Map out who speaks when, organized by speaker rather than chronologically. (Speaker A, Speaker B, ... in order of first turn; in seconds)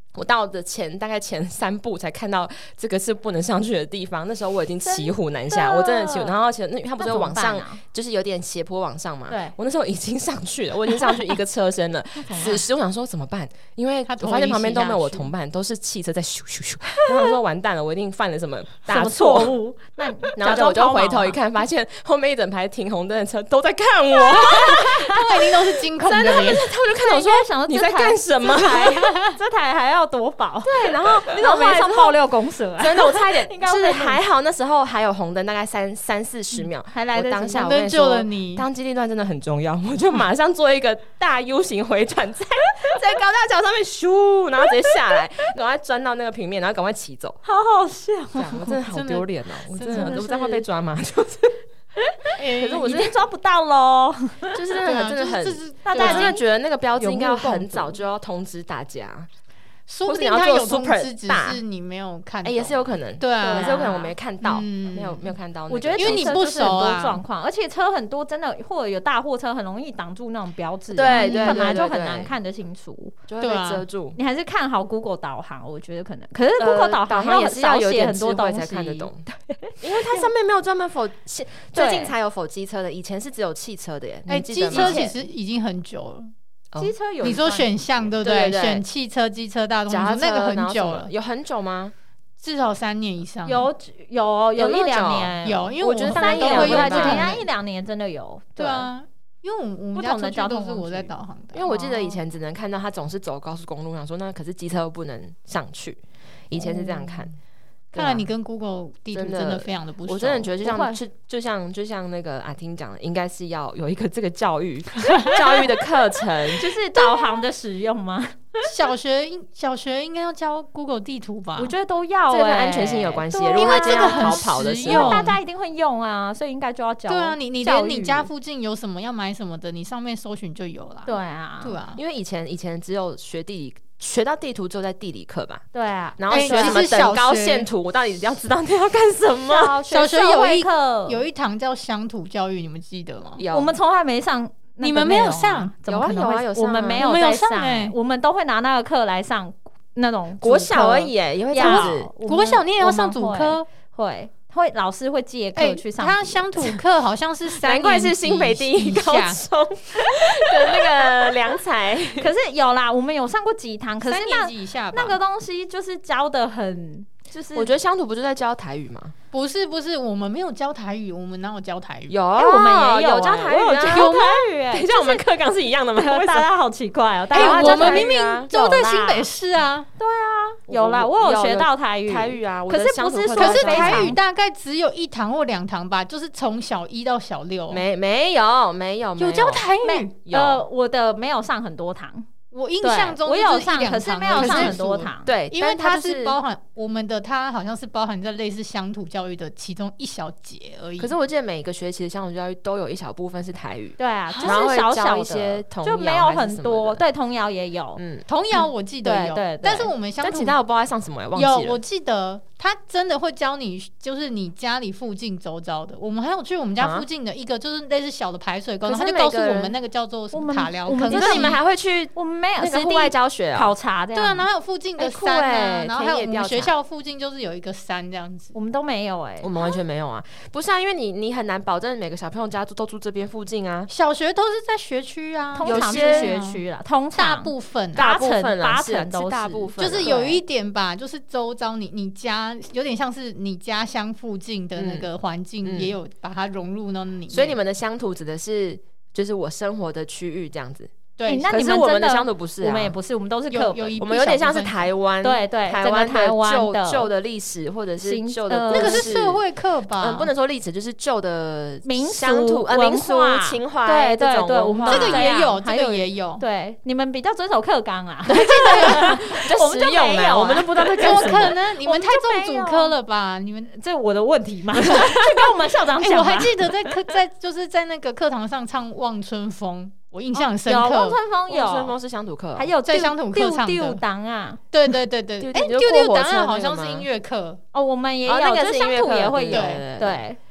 Speaker A: 0.1-19.6, 20.4-25.2, 26.0-29.1, 30.6-32.2, 32.8-47.4, 48.4-51.6, 52.5-53.2, 54.5-59.3, 60.1-61.6, 62.4-66.4, 70.9-72.3, 73.3-74.2, 76.6-79.3, 79.8-85.1, 88.2-88.8, 89.9-91.9, 94.6-97.4, 101.5-107.3, 107.9-108.3, 109.1-116.7, 122.3-125.2, 132.0-135.6, 136.2-139.8, 143.4-143.8, 145.9-147.1, 150.4-152.1, 157.6-162.3, 167.6-169.1, 172.1-176.5, 177.3-178.5, 180.7-184.2, 187.7-189.7, 190.3-190.6, 194.3-196.4, 201.0-207.0, 208.0-208.2, 210.2-211.8, 216.8-217.1, 218.8-219.8, 221.1-223.7, 225.0-226.7, 229.4-233.9, 235.6-236.4, 237.9-240.4, 244.8-245.1, 245.6-245.9, 247.3-250.9, 251.5-253.0, 254.0-259.4, 260.0-265.3, 268.3-271.6, 281.5-282.7, 285.4-287.1, 288.3-290.2
Speaker B: 4.8-6.3, 7.0-7.8, 9.3-9.6, 17.1-17.4, 18.9-21.4, 24.3-24.9, 26.9-34.2, 36.9-37.6, 47.5-48.8, 49.9-50.6, 52.0-54.6, 55.9-56.4, 57.0-58.0, 63.4-64.1, 65.7-73.2, 74.2-80.3, 81.8-82.1, 84.7-85.1, 86.8-87.7, 93.5-98.9, 100.0-102.2, 110.6-111.0, 116.6-118.7, 121.6-128.3, 131.1-131.8, 135.7-136.9, 139.5-141.2, 143.5-156.8, 162.2-167.7, 172.4-175.2, 176.0-179.3, 180.0-184.2, 189.8-192.3, 192.8-195.3, 204.0-208.0, 209.0-209.9, 220.3-221.6, 222.2-224.5, 228.5-229.5, 235.6-240.3, 251.3-254.1, 255.2-257.1, 258.0-259.1, 261.9-272.9, 273.8-276.9, 280.4-281.9, 282.6-284.6, 287.7-290.4
Speaker C: 14.1-15.3, 24.9-26.7, 37.5-38.7, 48.9-50.2, 52.4-53.0, 54.8-56.4, 59.9-65.3, 66.0-67.2, 71.1-71.8, 73.4-73.8, 84.3-86.3, 87.2-91.1, 92.4-93.7, 95.4-97.5, 98.6-101.7, 106.6-107.0, 107.9-110.5, 118.7-121.7, 123.5-125.4, 127.1-132.0, 136.3-137.7, 139.9-143.4, 144.8-145.7, 147.0-147.9, 151.6-153.7, 155.6-159.4, 164.1-165.2, 169.3-172.2, 173.9-174.4, 177.3-179.9, 183.4-187.8, 189.2-190.1, 192.5-201.1, 204.3-204.6, 208.3-210.6, 211.3-221.6, 224.1-228.5, 233.9-236.6, 237.2-238.0, 239.8-247.6, 251.2-251.5, 253.5-254.9, 258.7-260.3, 264.9-266.4, 268.3-269.2, 271.0-273.7, 274.9-275.2, 276.0-281.2, 282.9-284.0, 284.7-287.6, 289.5-289.8